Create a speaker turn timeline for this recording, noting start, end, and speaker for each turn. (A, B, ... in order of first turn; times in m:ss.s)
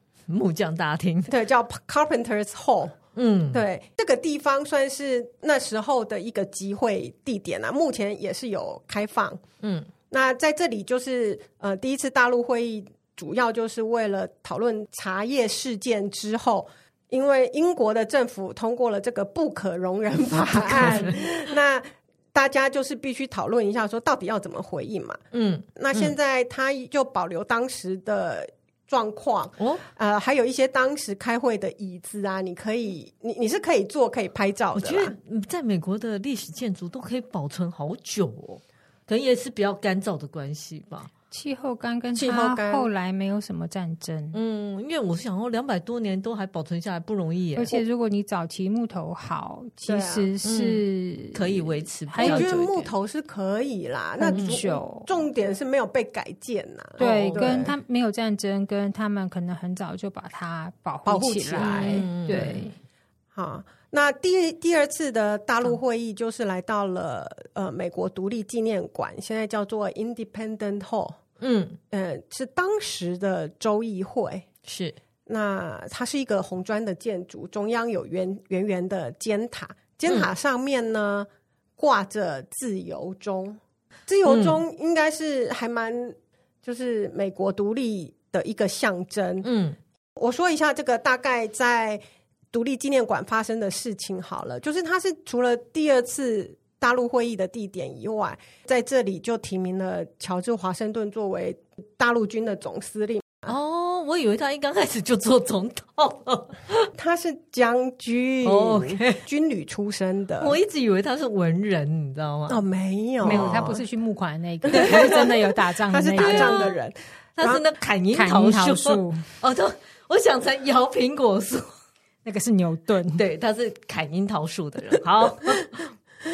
0:00.3-0:01.3 A
0:01.3-0:03.0 B
0:03.2-0:03.6 A
0:03.5-0:09.4 B
0:09.6-0:09.9 A
0:10.1-0:25.2 B
0:20.5-0:21.3 A
0:25.3-0:26.1 A
0:25.8-0:35.2 B
0:34.8-0:41.1 A
0:41.3-0:44.4 C
0:42.2-0:42.9 B
0:44.3-0:47.7 A
0:47.6-0:52.5 C
0:49.8-0:50.3 B
0:50.4-0:52.9 A
0:52.2-0:57.7 B
0:54.2-0:55.1 C
0:54.3-0:54.6 A
0:57.0-0:57.7 A
0:57.0-1:02.8 C
1:01.1-1:02.1 B
1:01.6-1:02.7 A
1:03.4-1:11.2 B
1:11.4-1:11.8 A
1:11.9-1:14.5 B
1:14.6-1:15.0 A
1:15.3-1:29.5 B
1:24.2-1:24.6 A
1:29.4-1:29.8 A
1:30.2-1:32.0 B
1:32.5-1:43.6 B
1:43.5-1:46.9 A
1:46.9-1:50.6 B
1:48.4-1:49.2 A
1:50.4-1:52.6 A
1:52.5-1:53.8 B
1:53.2-1:56.7 C
1:53.3-1:53.6 A
1:54.7-1:55.3 B
1:54.7-1:55.4 A
1:55.9-1:57.6 B
1:56.2-1:56.7 A
1:57.4-2:01.7 A
1:58.1-1:59.3 C
2:02.2-2:03.2 C
2:03.1-2:05.9 A